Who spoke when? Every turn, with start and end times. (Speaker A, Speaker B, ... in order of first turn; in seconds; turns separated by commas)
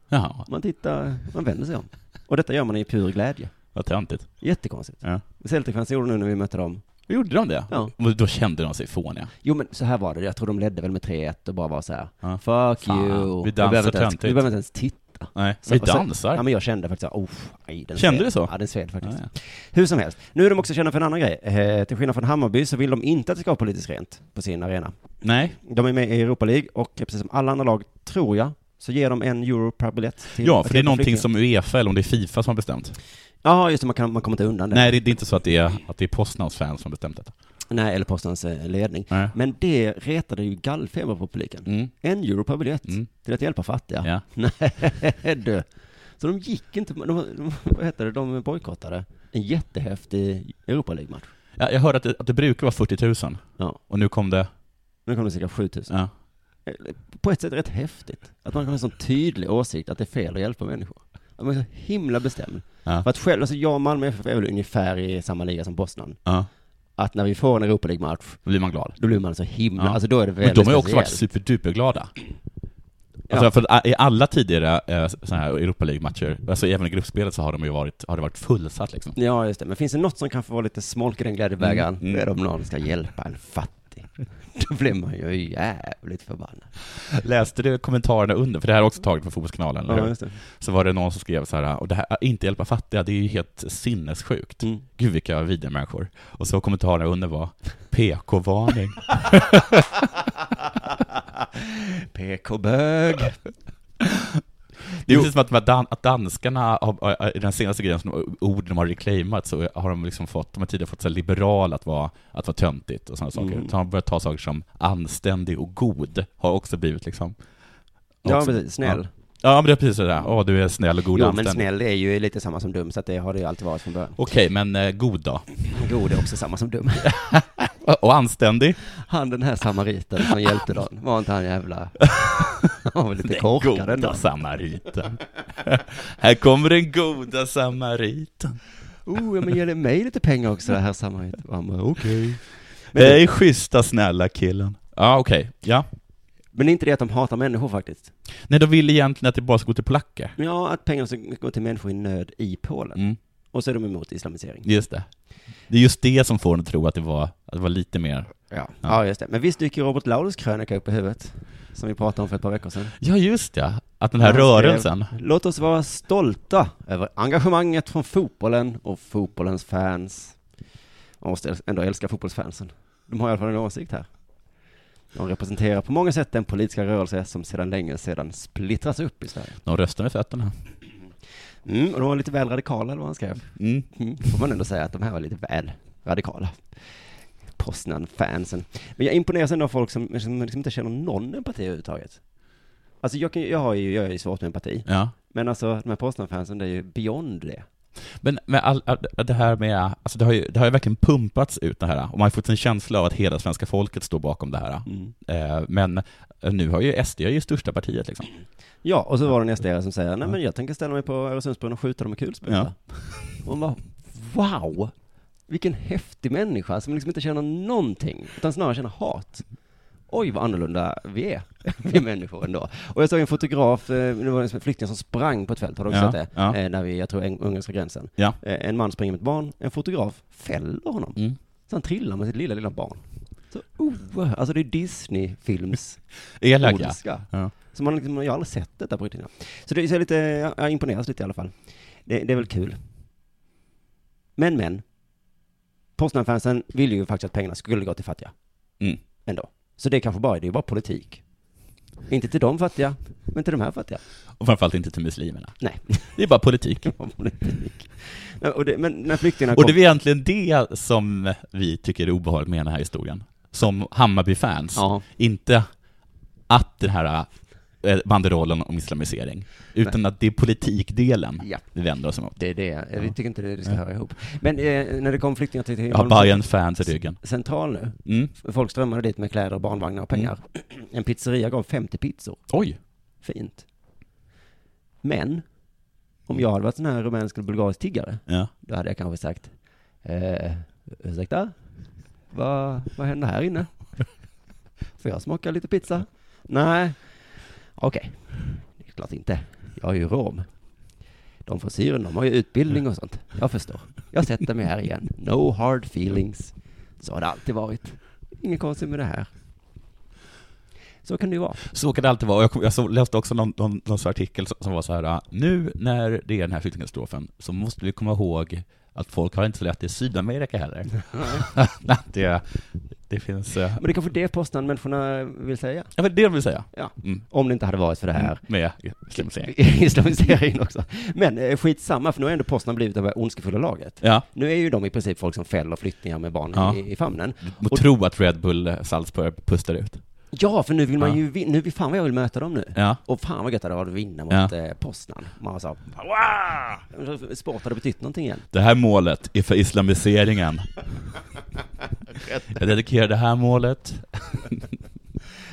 Speaker A: 0.1-0.5, Speaker B: 0.5-3.5, Speaker A: 3.7-4.4, Speaker B: 4.4-6.8, Speaker A: 7.1-9.3, Speaker B: 7.7-7.9, Speaker B: 9.4-24.9, Speaker A: 12.2-14.5, Speaker A: 15.3-16.4, Speaker A: 18.0-19.3, Speaker A: 25.2-25.6, Speaker B: 25.6-31.3, Speaker A: 30.4-33.0, Speaker B: 33.4-35.0, Speaker A: 34.7-37.3, Speaker B: 37.7-45.7, Speaker A: 41.7-41.9, Speaker B: 46.2-51.3, Speaker A: 51.6-54.5, Speaker B: 55.1-56.0, Speaker B: 56.7-66.2, Speaker B: 67.0-68.4, Speaker A: 68.5-69.0, Speaker B: 69.0-71.2, Speaker A: 69.8-72.1, Speaker A: 73.3-79.2, Speaker B: 79.2-86.7, Speaker A: 81.6-82.2, Speaker A: 87.0-100.1, Speaker B: 89.9-90.4, Speaker B: 102.1-103.4, Speaker A: 104.0-104.3, Speaker A: 105.0-117.4, Speaker B: 113.3-113.7, Speaker A: 118.2-121.6, Speaker B: 118.2-119.1, Speaker B: 121.1-124.2, Speaker A: 124.2-125.5, Speaker B: 125.7-127.2, Speaker A: 127.0-128.8, Speaker B: 128.9-134.2, Speaker A: 132.2-132.5, Speaker A: 133.2-138.6, Speaker B: 139.1-142.4, Speaker A: 142.0-142.4, Speaker B: 142.9-143.2, Speaker A: 142.9-145.9, Speaker B: 146.5-148.1, Speaker A: 148.5-150.3, Speaker B: 150.4-153.0, Speaker B: 153.5-154.7, Speaker A: 154.7-155.1, Speaker A: 155.7-158.3, Speaker B: 158.5-162.9, Speaker A: 163.0-165.1, Speaker B: 164.2-170.4, Speaker B: 171.2-174.1, Speaker B: 175.1-179.6, Speaker A: 179.7-180.6, Speaker B: 181.7-186.8, Speaker A: 183.6-183.9, Speaker B: 187.6-192.2, Speaker B: 193.0-197.7, Speaker A: 194.9-195.1, Speaker A: 198.2-208.3, Speaker B: 204.9-205.1, Speaker B: 208.8-212.8, Speaker B: 213.4-214.9, Speaker B: 215.5-219.4, Speaker B: 220.1-236.0, Speaker A: 225.9-226.6, Speaker A: 236.4-237.5, Speaker B: 236.6-241.5, Speaker B: 242.1-242.8, Speaker B: 244.4-244.8, Speaker B: 246.0-248.3, Speaker B: 249.3-251.2, Speaker B: 252.1-254.0, Speaker A: 254.4-256.9, Speaker B: 255.6-256.0, Speaker B: 256.9-259.8, Speaker A: 259.5-265.7, Speaker B: 264.8-265.0, Speaker A: 266.5-267.3, Speaker A: 267.8-272.4, Speaker B: 272.4-282.5, Speaker A: 275.9-277.2, Speaker A: 278.1-278.3, Speaker A: 282.5-282.8, Speaker B: 283.2-283.6, Speaker B: 285.0-285.4, Speaker B: 286.3-289.5, Speaker B: 290.0-291.6, Speaker B: 292.3-293.7, Speaker B: 295.0-297.0, Speaker B: 297.8-300.5, Speaker B: 301.5-309.3, Speaker B: 311.1-311.6, Speaker A: 311.7-322.5, Speaker A: 323.1-323.8, Speaker B: 323.8-325.9, Speaker A: 326.0-327.2, Speaker B: 326.7-328.4, Speaker A: 328.1-329.6, Speaker B: 329.1-337.9, Speaker A: 336.5-336.8, Speaker A: 337.4-340.0, Speaker B: 340.3-348.5, Speaker A: 342.8-343.0, Speaker A: 348.5-350.7, Speaker A: 352.5-354.6